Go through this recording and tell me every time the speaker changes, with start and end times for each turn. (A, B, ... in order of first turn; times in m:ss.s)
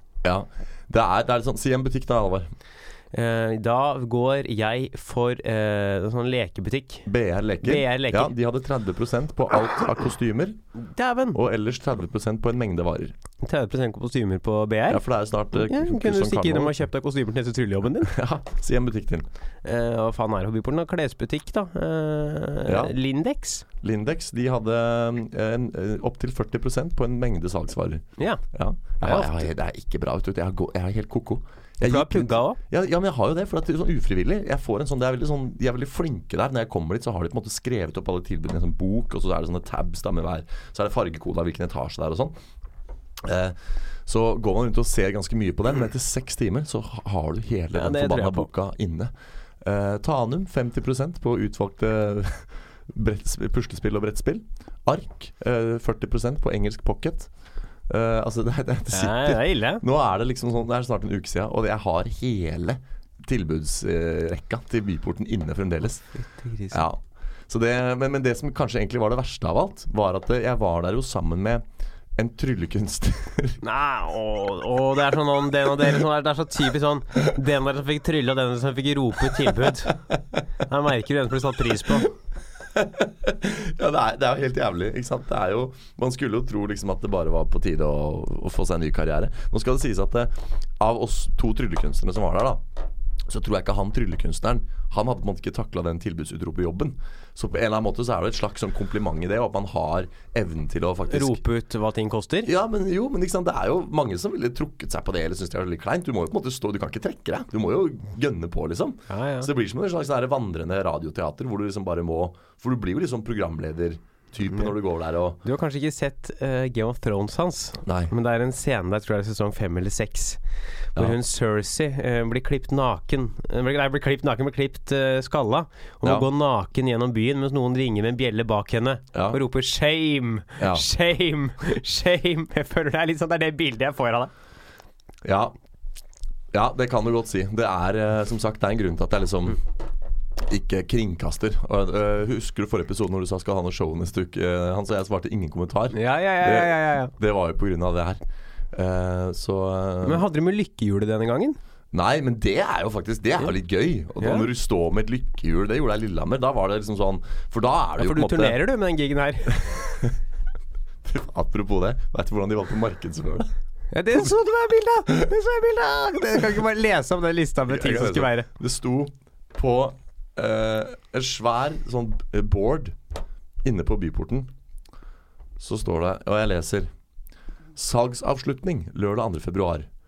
0:00.2-0:02.5 A
0:03.1-0:07.1 B
0:07.0-0:10.6 A
0:07.6-0:08.3 B
0:10.8-0:11.4 B
0:11.3-0:13.1 A
0:13.4-0:18.1 B
0:14.9-0:16.8 A
0:18.1-0:19.3 A
0:19.6-0:23.6 B
0:22.6-0:22.9 A
0:23.8-0:42.3 A
0:28.2-0:28.4 B
0:29.0-0:29.5 B
0:31.8-0:32.6 B
0:43.2-0:57.3 A
0:47.7-0:48.5 B
0:57.9-1:06.0 A
0:58.9-0:59.8 B
1:06.2-1:06.8 B
1:06.7-1:11.6 A
1:12.2-1:13.6 A
1:13.6-1:20.0 B
1:20.6-1:22.1 B
1:22.7-1:32.6 A
1:33.2-1:41.4 A
1:41.1-1:42.5 B
1:42.4-1:55.4 A
1:49.1-1:49.5 B
1:55.4-2:00.4 B
1:57.8-1:58.1 A
2:00.9-2:14.3 B
2:06.0-2:06.3 A
2:09.1-2:09.4 A
2:10.6-2:10.9 A
2:15.2-2:15.5 A
2:16.5-2:19.6 A
2:20.4-2:28.2 A
2:25.9-2:27.1 B
2:28.7-2:30.2 A
2:30.0-2:31.6 B
2:31.9-2:38.6 A
2:34.2-2:34.5 B
2:38.0-2:39.6 B
2:39.5-2:40.2 A
2:41.0-2:43.5 A
2:43.9-2:48.5 B
2:47.7-2:53.0 A
2:53.6-2:54.5 A
2:55.6-2:56.9 A
2:57.7-2:59.9 A